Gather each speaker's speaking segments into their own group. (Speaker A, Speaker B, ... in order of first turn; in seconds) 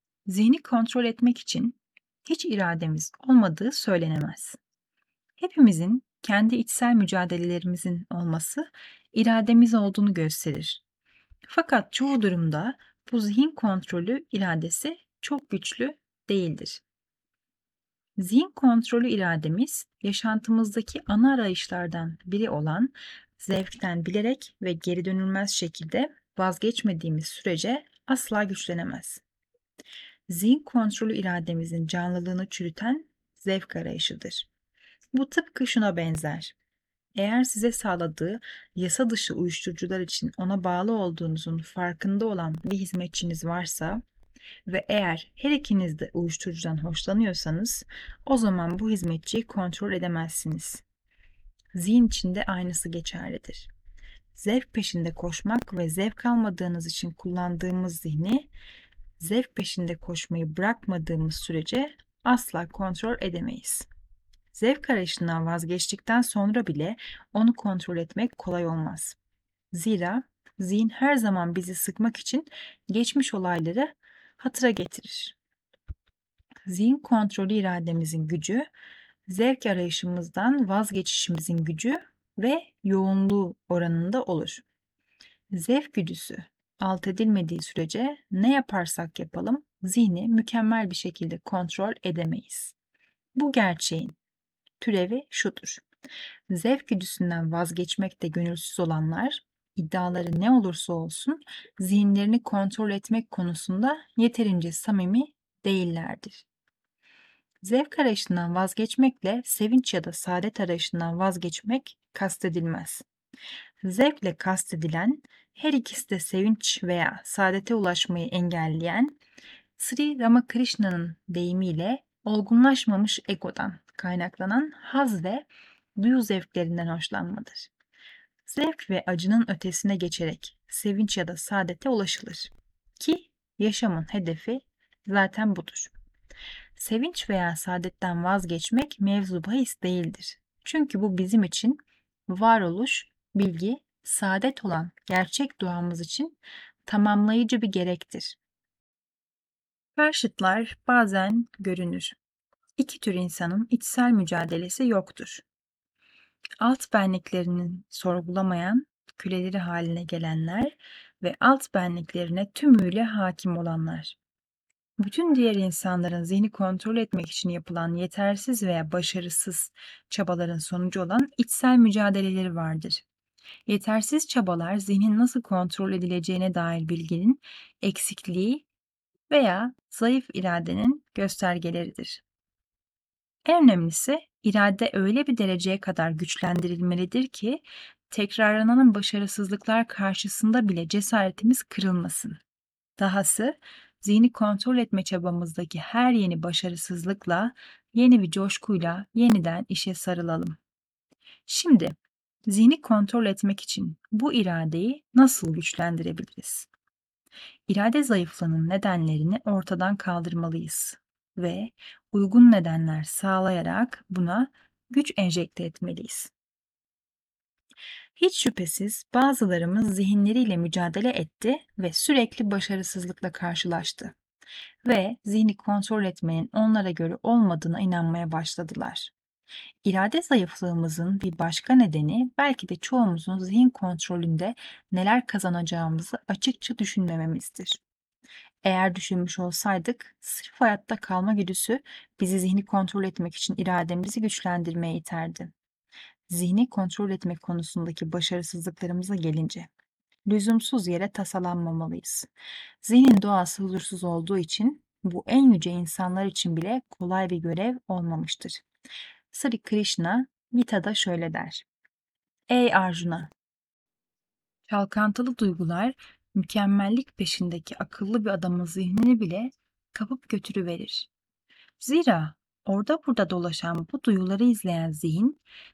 Speaker A: 0.3-4.6, 5.4-10.8, 11.5-16.8, 18.2-29.2, 30.3-34.5, 35.1-36.5, 37.1-44.0, 44.6-50.8, 51.7-53.7, 54.3-58.5, 59.2-63.9, 64.5-69.2, 69.7-75.3, 76.7-78.7, 79.3-84.6, 85.5-92.7, 93.3-94.2, 94.8-95.8, 96.5-106.5, 107.6-113.0, 113.8-119.2, 119.8-127.7, 128.4-135.9, 136.8-148.4, 150.0-152.1, 152.8-155.4, 156.6-164.2, 165.0-173.0, 173.7-178.7, 179.3-182.2, 183.4-192.4, 193.0-200.6, 201.4-201.9, 202.5-206.7, 207.7-216.3, 218.2-224.2, 224.8-229.1, 229.8-237.8, 238.6-245.5, 246.3-249.7, 250.2-252.3, 252.8-258.6, 259.3-261.6, 262.5-263.3, 264.7-271.1, 271.8-275.4